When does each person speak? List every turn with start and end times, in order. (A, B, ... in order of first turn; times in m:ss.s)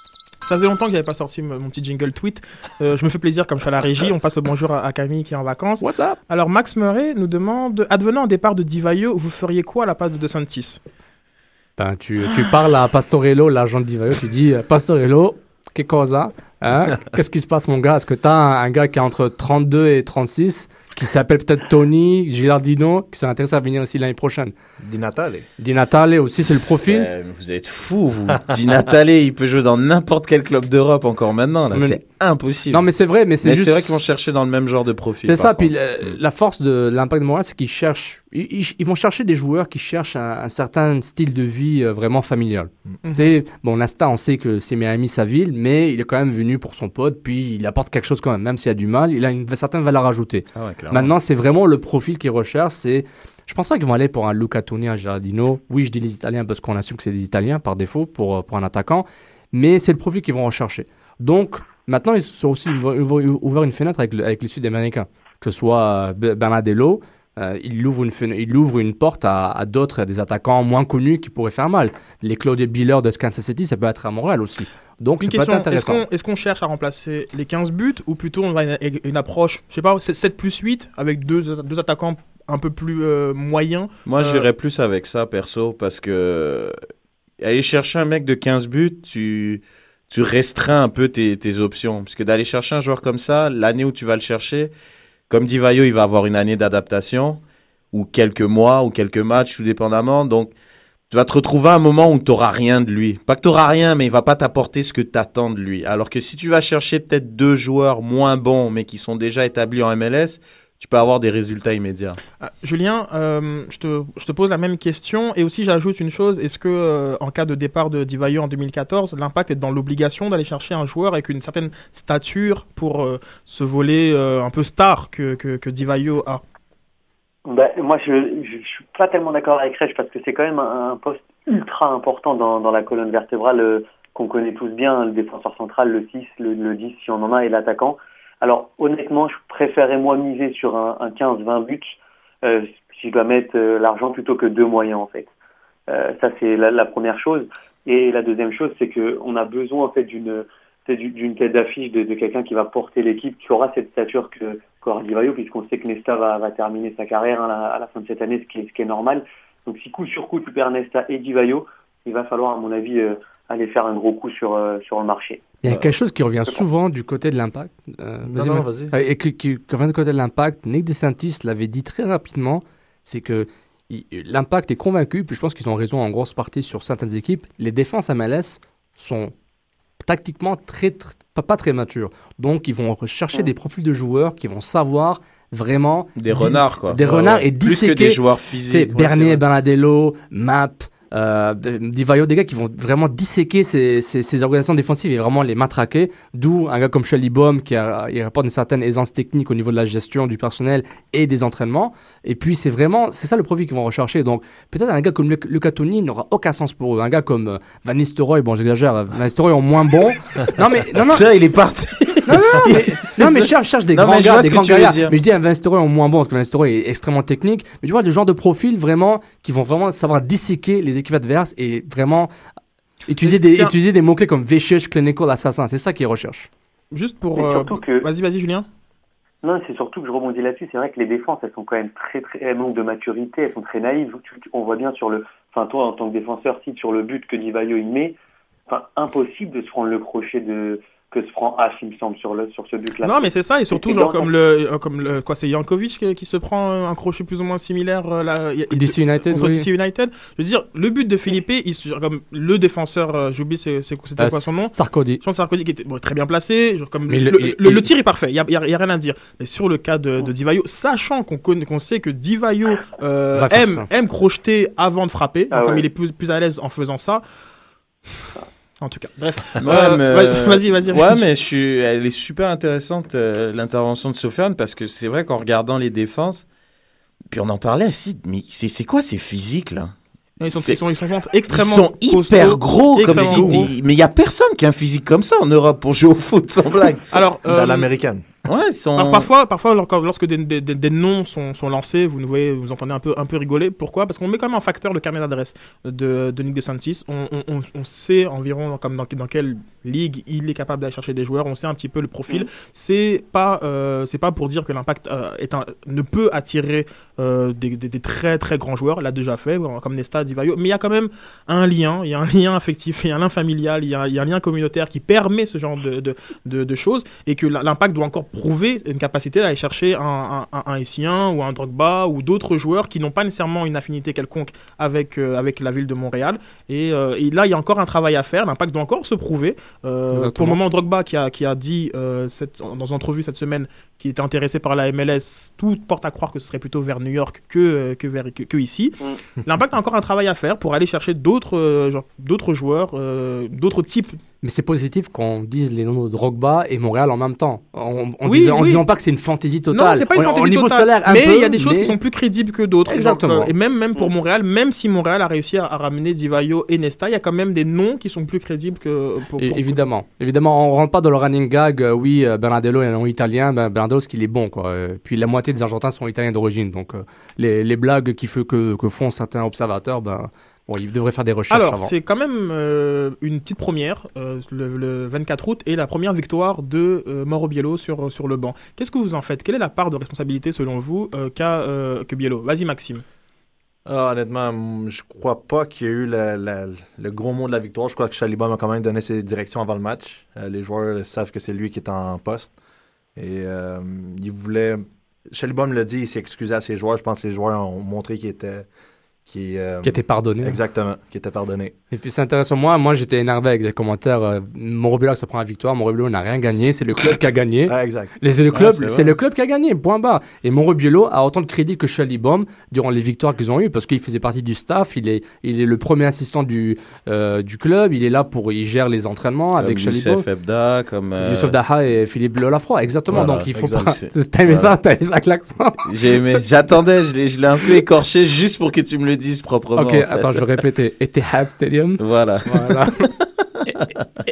0:00.4-0:10.8 A
0:05.8-0:06.2 B
0:11.8-0:24.5 B
0:24.8-0:25.5 C
0:25.6-0:27.1 B
0:26.8-0:32.9 D
0:31.7-0:32.0 B
0:32.7-0:34.0 B
0:33.4-0:36.1 D
0:35.3-1:16.0 B
0:43.0-0:43.3 A
0:50.6-0:51.1 D
1:15.2-1:24.5 A
1:24.1-1:26.7 D
1:27.4-1:34.7 D
1:35.3-1:37.4 D
1:37.9-1:40.5 D
1:41.1-1:52.2 D
1:52.4-2:06.4 A
2:07.4-2:25.3 E
2:25.9-2:45.6 E
2:45.6-2:59.3 B
2:48.3-2:48.9 C
3:00.0-3:31.2 B
3:06.2-3:09.4 D
3:31.1-3:35.2 D
3:32.3-3:42.3 B
3:43.1-3:46.5 B
3:43.2-3:43.7 A
3:46.9-3:48.7 A
3:47.4-3:48.1 E
3:49.4-3:58.2 E
3:58.7-4:04.3 E
4:03.0-4:27.2 A
4:08.7-4:09.7 B
4:14.2-4:15.2 B
4:17.1-4:17.9 B
4:23.4-4:23.9 B
4:25.5-4:25.9 E
4:28.8-4:31.2 A
4:29.6-4:36.5 D
4:37.3-4:39.9 D
4:40.4-4:43.7 A
4:40.5-4:40.8 D
4:41.5-4:47.0 D
4:47.1-4:47.9 A
4:47.5-4:48.2 C
4:48.4-4:49.3 D
4:49.0-5:44.2 A
5:30.1-5:30.6 B
5:44.4-5:52.0 B
5:48.2-5:48.8 A
5:49.7-5:59.8 A
5:52.9-5:53.5 B
5:59.4-6:11.9 B
6:11.5-6:23.0 A
6:23.9-6:32.5 C
6:33.2-6:38.7 C
6:39.3-6:41.8 C
6:39.8-6:40.6 B
6:41.9-7:00.3 B
6:47.7-6:48.1 C
6:48.5-6:49.2 D
6:59.6-7:01.6 D
7:01.2-7:05.8 B
7:03.1-7:04.7 D
7:05.8-7:10.6 D
7:09.8-7:13.1 B
7:12.0-7:12.9 D